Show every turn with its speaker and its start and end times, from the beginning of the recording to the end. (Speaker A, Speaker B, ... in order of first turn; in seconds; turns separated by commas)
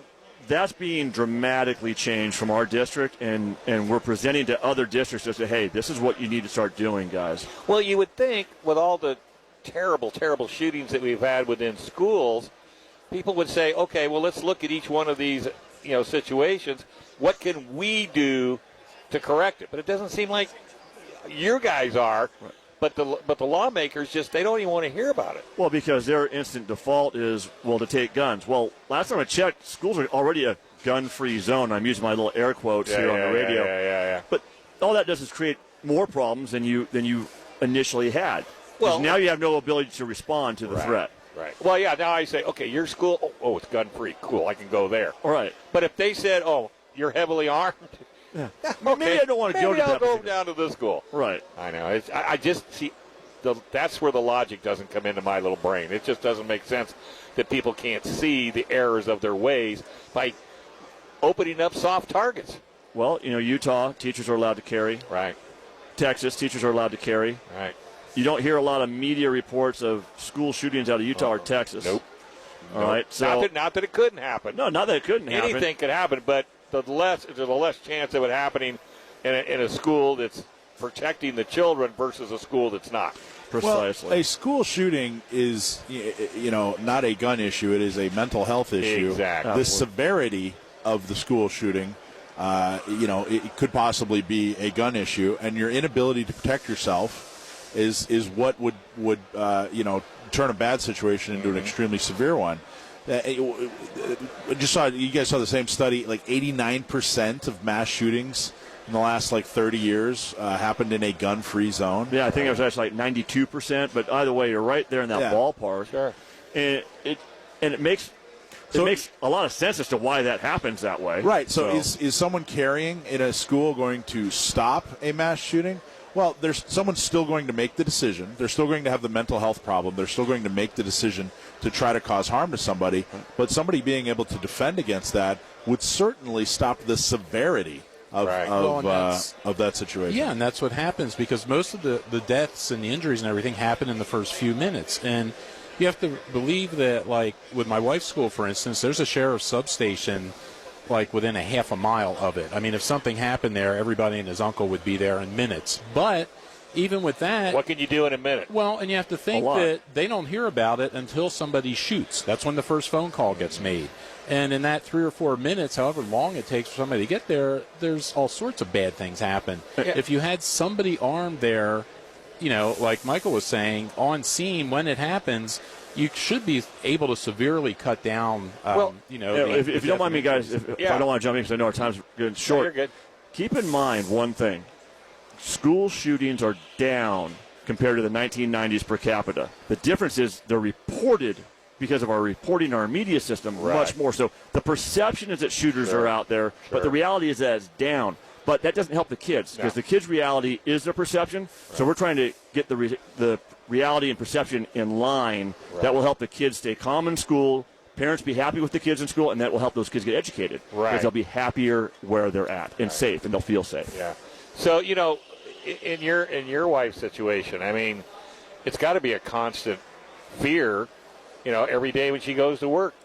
Speaker A: 0.5-7.5, Speaker B: 7.6-12.5, Speaker B: 13.1-20.5, Speaker B: 21.2-25.4, Speaker A: 25.6-33.7, Speaker B: 32.8-34.2, Speaker A: 34.3-41.1, Speaker B: 38.8-39.2, Speaker B: 40.7-45.2, Speaker A: 45.2-45.5, Speaker B: 45.7-48.0, Speaker A: 48.3-50.3, Speaker B: 48.6-51.0, Speaker A: 51.1-51.4, Speaker B: 51.5-60.4, Speaker B: 61.2-62.6, Speaker A: 62.9-65.0, Speaker B: 65.1-65.3, Speaker A: 66.0-67.4, Speaker B: 67.5-67.7, Speaker A: 68.1-72.0, Speaker B: 72.7-74.6, Speaker A: 72.7-73.5, Speaker A: 74.5-75.7, Speaker B: 75.3-83.2, Speaker A: 83.5-84.2, Speaker C: 83.6-112.6, Speaker B: 88.8-89.6, Speaker A: 89.4-89.8, Speaker B: 101.3-101.7, Speaker A: 112.1-115.9, Speaker C: 115.1-115.4, Speaker B: 115.9-116.1, Speaker A: 116.5-118.1, Speaker A: 118.7-121.3, Speaker C: 118.7-119.0, Speaker C: 121.2-140.3, Speaker B: 138.2-138.5, Speaker D: 138.5-139.3, Speaker D: 140.1-150.3, Speaker D: 150.9-157.6, Speaker B: 157.5-158.5, Speaker D: 158.5-171.8, Speaker A: 159.3-159.7, Speaker D: 172.4-180.6, Speaker A: 179.3-182.7, Speaker B: 180.8-181.1, Speaker B: 182.4-182.9, Speaker A: 183.3-184.7, Speaker A: 185.4-213.9, Speaker B: 193.5-193.9, Speaker B: 195.8-196.1, Speaker B: 196.7-196.9, Speaker B: 210.7-211.1, Speaker B: 213.9-218.0, Speaker B: 218.6-219.8, Speaker B: 220.3-220.9, Speaker B: 221.4-222.9